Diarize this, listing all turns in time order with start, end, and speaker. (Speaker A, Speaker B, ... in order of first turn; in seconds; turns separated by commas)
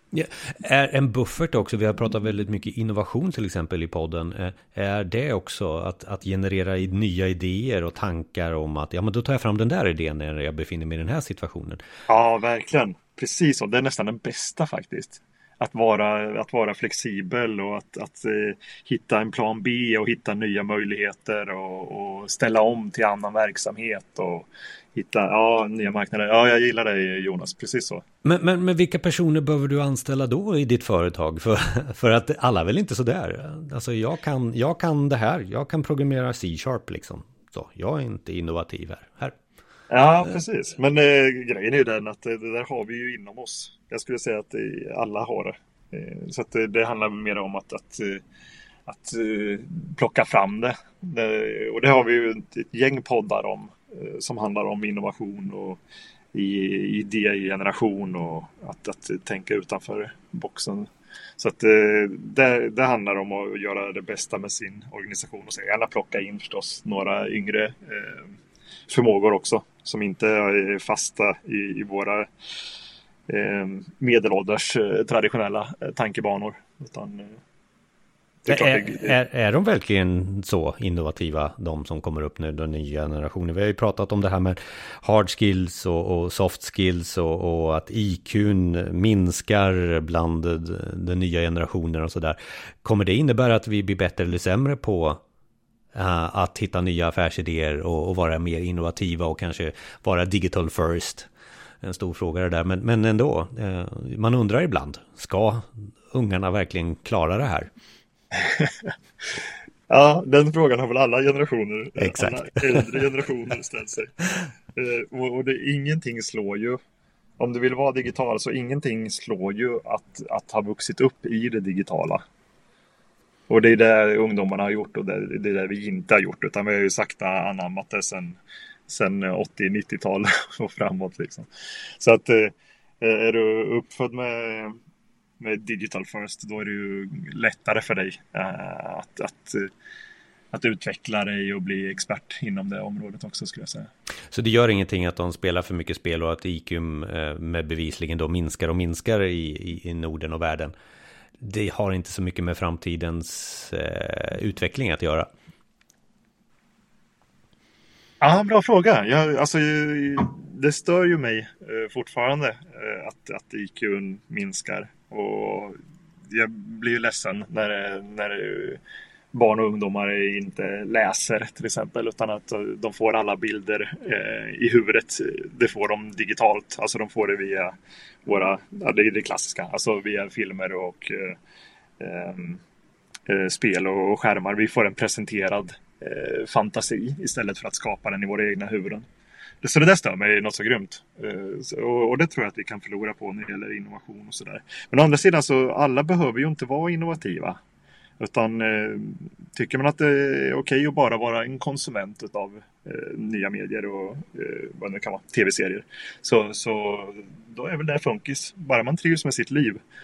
Speaker A: 0.1-11.8, Speaker B: 12.1-28.0, Speaker A: 28.2-39.4, Speaker B: 39.9-48.2, Speaker B: 48.9-55.8, Speaker B: 56.3-68.3, Speaker B: 68.9-72.3, Speaker B: 73.3-77.3, Speaker B: 78.4-79.2, Speaker A: 78.5-95.2, Speaker A: 95.9-101.3, Speaker A: 101.8-107.7, Speaker B: 108.3-108.9, Speaker B: 109.9-116.8, Speaker A: 112.0-112.8, Speaker B: 117.4-122.2, Speaker B: 123.5-134.8, Speaker B: 135.4-139.7, Speaker B: 140.5-143.9, Speaker A: 144.3-150.7, Speaker A: 151.4-155.3, Speaker B: 158.2-165.8, Speaker B: 166.3-168.8, Speaker B: 169.3-181.4, Speaker B: 182.0-182.6, Speaker B: 183.3-189.0, Speaker B: 189.6-197.6, Speaker B: 198.2-209.8